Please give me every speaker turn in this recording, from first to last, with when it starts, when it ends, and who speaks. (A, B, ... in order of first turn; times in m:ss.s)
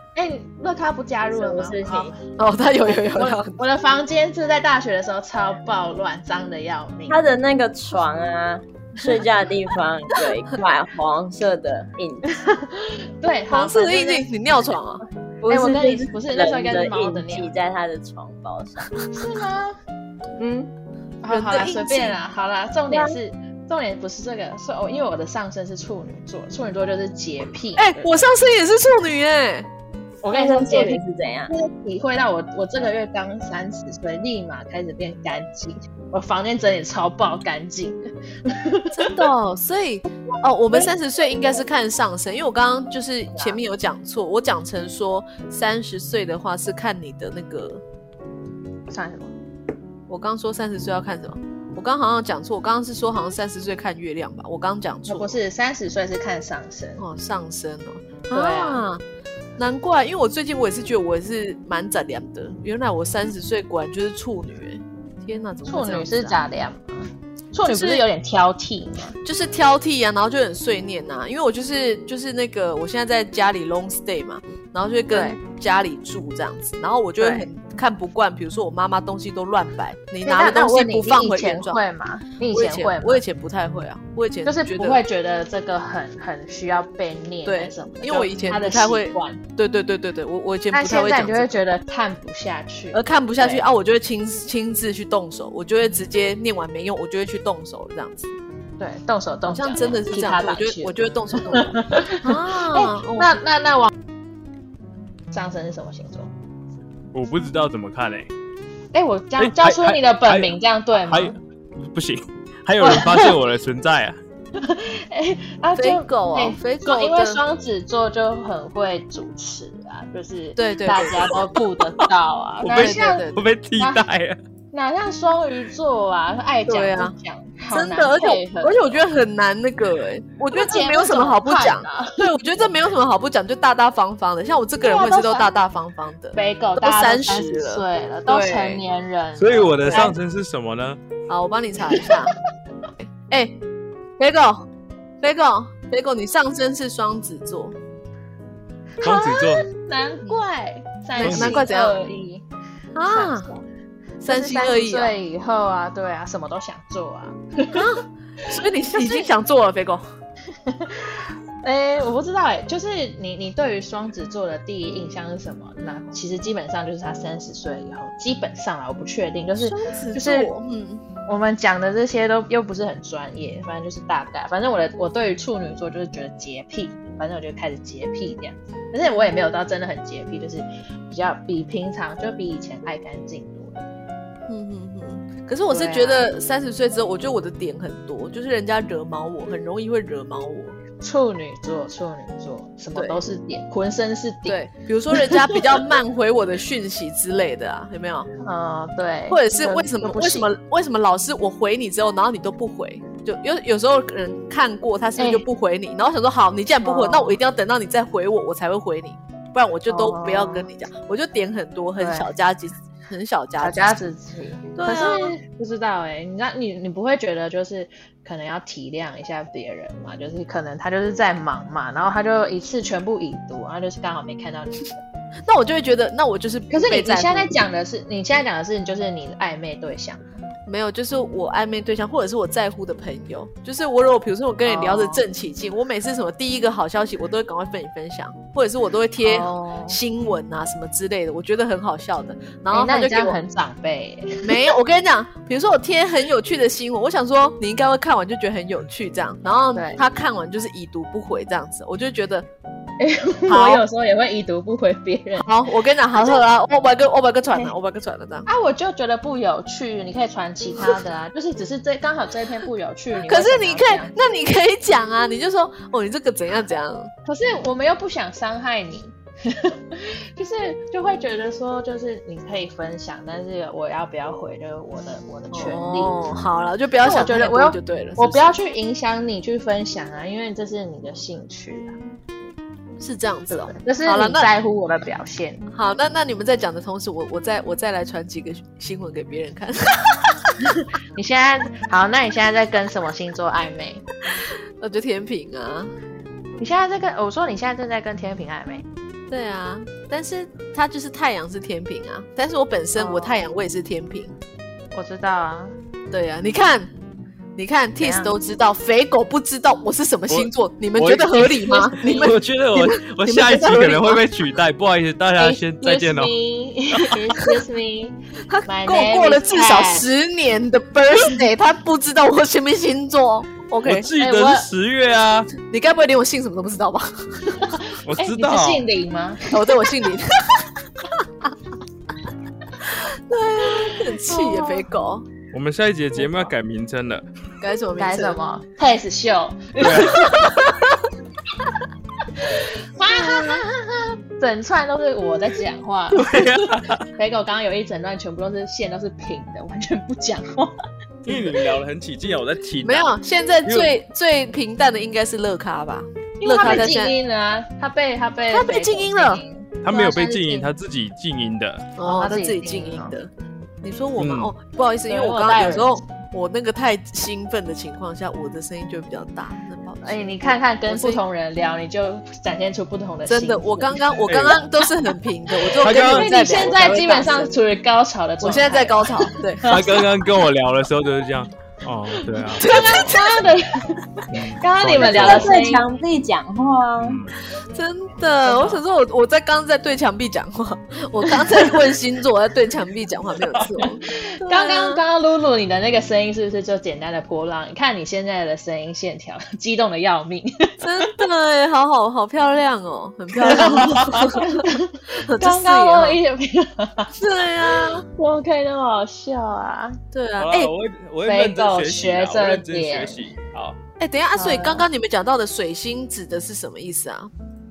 0:00.2-0:02.2 A
0:01.3-0:02.1 B
0:02.4-0:03.6 C
0:02.9-0:07.3 A
0:07.1-0:12.4 B
0:12.3-0:14.3 A
0:13.5-0:16.1 C
0:15.5-0:17.5 A
0:15.7-0:19.0 B
0:19.1-0:19.8 A
0:20.4-0:20.7 B
0:21.2-0:28.2 A
0:21.3-0:22.2 C
0:22.9-0:23.2 B
0:27.8-0:29.7 C
0:30.2-0:39.3 A
0:30.3-0:31.5 B
0:38.9-0:47.8 C
0:40.7-0:41.6 A
0:43.3-0:43.6 A
0:48.9-0:49.3 A
0:50.1-0:55.4 C
0:55.1-0:57.0 A
0:57.0-0:59.0 C
0:58.3-0:58.8 A
0:59.6-1:06.4 C
1:05.6-1:09.2 A
1:07.7-1:08.0 C
1:09.2-1:21.8 C
1:15.1-1:15.4 A
1:17.2-1:17.5 A
1:20.2-1:23.2 A
1:22.5-1:25.0 C
1:24.5-1:29.4 A
1:27.5-1:31.6 C
1:30.7-1:33.6 A
1:32.9-1:38.4 C
1:38.8-1:43.9 A
1:39.5-1:43.3 C
1:45.3-1:46.3 A
1:47.1-1:48.3 D
1:48.9-1:51.4 A
1:49.4-1:54.2 D
1:52.8-1:53.4 A
1:54.6-2:04.1 A
1:55.8-1:57.4 C
2:00.6-2:01.4 C
2:02.6-2:04.4 D
2:02.7-2:03.5 C
2:04.7-2:09.0 A
2:06.7-2:07.2 C
2:07.7-2:18.8 C
2:10.5-2:12.3 A
2:14.8-2:15.5 A
2:16.4-2:20.2 A
2:19.4-2:21.0 D
2:19.9-2:20.1 C
2:21.3-2:22.3 C
2:21.9-2:22.2 A
2:23.0-2:23.6 C
2:24.2-2:24.7 C
2:25.2-2:27.8 C
2:29.0-2:32.4 A
2:29.0-2:29.6 D
2:31.2-2:32.0 C
2:31.2-2:31.6 D
2:33.0-2:33.5 C
2:33.0-2:33.6 A
2:34.2-2:35.2 C
2:34.2-2:37.9 A
2:37.7-2:40.1 C
2:38.8-2:39.3 A
2:40.7-2:50.5 A
2:49.6-2:51.0 C
2:51.3-3:03.8 A
3:04.5-3:10.8 C
3:05.7-3:06.2 A
3:11.0-3:14.6 A
3:13.0-3:13.2 C
3:14.5-3:18.3 C
3:15.2-3:15.6 A
3:18.4-3:20.5 A
3:19.3-3:34.0 C
3:25.2-3:25.4 A
3:26.8-3:27.4 A
3:29.9-3:30.7 A
3:32.0-3:32.3 A
3:33.6-3:45.0 A
3:34.8-3:35.3 C
3:45.4-3:47.6 C
3:46.7-3:50.3 A
3:50.7-4:03.4 C
3:54.6-3:55.2 A
3:59.2-4:00.0 A
4:02.7-4:04.6 A
4:04.4-4:12.5 C
4:09.8-4:10.0 A
4:13.0-4:15.5 A
4:13.5-4:13.8 C
4:15.4-4:18.5 C
4:16.1-4:16.4 A
4:18.5-4:24.1 A
4:23.2-4:27.1 C
4:27.2-4:36.3 A
4:35.5-4:38.5 C
4:37.0-4:42.0 A
4:43.0-4:44.5 C
4:43.5-4:45.6 A
4:45.7-4:50.5 C
4:50.7-4:54.0 A
4:54.8-4:55.9 C
4:56.6-4:58.9 A
4:59.3-5:04.4 C
5:03.0-5:03.4 A
5:04.9-5:05.7 A
5:06.1-5:06.9 C
5:07.6-5:14.2 C
5:08.0-5:08.4 A
5:10.3-5:16.3 D
5:11.8-5:12.3 A
5:15.4-5:20.1 A
5:18.5-5:24.1 C
5:23.8-5:25.5 D
5:24.2-5:24.7 A
5:25.6-5:27.6 C
5:27.5-5:29.6 A
5:28.0-5:28.8 D
5:29.5-5:31.5 C
5:32.8-5:35.3 C
5:33.8-5:34.8 A
5:35.5-5:37.2 D
5:36.2-5:36.5 C
5:37.6-5:38.4 C
5:38.0-5:40.5 A
5:39.8-5:40.3 D
5:40.4-5:40.8 C
5:42.4-5:50.7 A
5:43.1-5:43.6 C
5:46.1-5:47.1 D
5:51.2-5:53.1 D
5:52.8-5:57.1 C
5:53.6-5:53.9 D
5:56.4-6:00.7 A
5:58.5-5:59.4 C
5:59.8-6:01.9 D
6:02.0-6:03.3 C
6:02.0-6:03.2 A
6:03.8-6:11.2 C
6:04.2-6:04.5 D
6:05.1-6:06.0 A
6:10.0-6:14.0 A
6:13.3-6:17.5 C
6:14.3-6:14.6 D
6:15.7-6:19.9 A
6:15.8-6:16.3 D
6:18.4-6:20.0 C
6:19.7-6:23.0 D
6:22.3-6:25.8 A
6:22.6-6:23.5 C
6:24.3-6:25.5 D
6:25.0-6:27.2 B
6:27.0-6:27.3 D
6:27.7-6:35.0 C
6:28.4-6:28.8 A
6:33.8-6:41.2 A
6:40.8-6:44.7 C
6:43.4-6:47.1 A
6:43.6-6:44.3 D
6:45.2-6:46.2 C
6:47.2-6:48.1 C
6:48.1-6:50.0 A
6:50.1-6:50.7 C
6:50.4-6:53.8 D
6:51.2-6:53.3 A
6:54.0-6:57.3 C
6:54.4-6:54.9 A